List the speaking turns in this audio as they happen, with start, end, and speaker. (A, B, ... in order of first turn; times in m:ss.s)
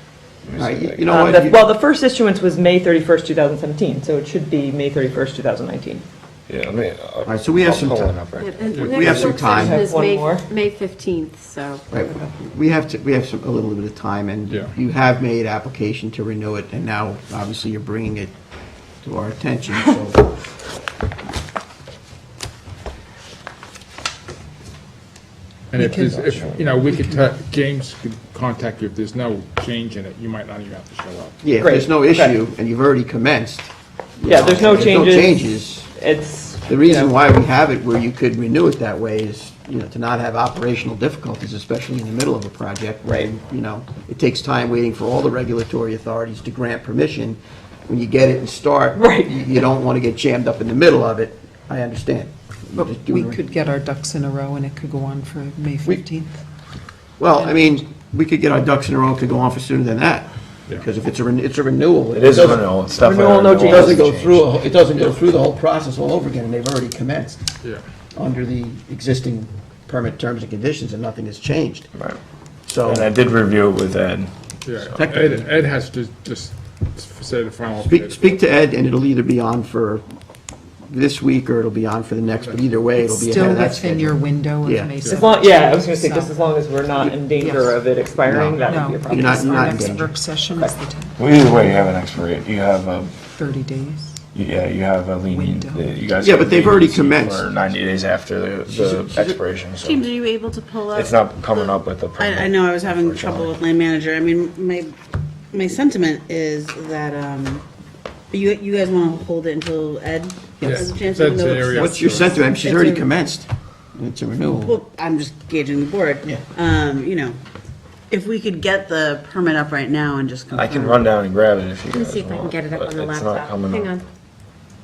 0:00.4-0:01.2 A
0:00.6-0:01.6 B
0:01.1-0:06.0 C
0:06.5-0:08.8 A
0:07.2-0:08.2 B
0:08.4-0:11.8 D
0:08.8-0:09.8 B
0:09.0-0:10.5 C
0:11.9-0:18.3 B
0:19.0-0:20.3 B
0:25.7-0:31.4 E
0:25.8-0:27.1 F
0:26.2-0:26.5 A
0:31.4-0:35.9 B
0:31.6-0:32.4 C
0:34.2-0:37.1 C
0:36.7-0:53.4 B
0:49.0-0:49.5 C
0:52.8-0:56.4 F
0:57.2-1:02.7 B
1:02.1-1:04.4 A
1:03.0-1:04.1 C
1:03.7-1:07.4 B
1:08.1-1:11.9 B
1:12.0-1:12.2 A
1:12.7-1:13.1 B
1:12.8-1:14.9 A
1:14.6-1:18.3 E
1:15.0-1:15.5 B
1:17.9-1:20.0 B
1:20.9-1:24.9 B
1:23.0-1:26.3 F
1:25.0-1:29.8 C
1:27.4-1:27.8 F
1:28.2-1:30.2 B
1:28.6-1:31.2 F
1:31.2-1:33.2 A
1:33.3-1:34.2 F
1:34.3-1:40.0 A
1:35.3-1:35.9 F
1:36.2-1:37.5 B
1:38.7-1:39.4 B
1:39.8-1:44.8 G
1:40.9-1:43.6 A
1:45.5-1:47.6 G
1:48.3-1:53.1 G
1:50.6-1:52.3 E
1:50.6-1:50.9 B
1:51.7-1:54.8 B
1:54.6-1:57.3 G
1:58.1-2:01.0 G
1:59.6-2:00.0 E
2:00.5-2:04.0 A
2:01.9-2:04.0 D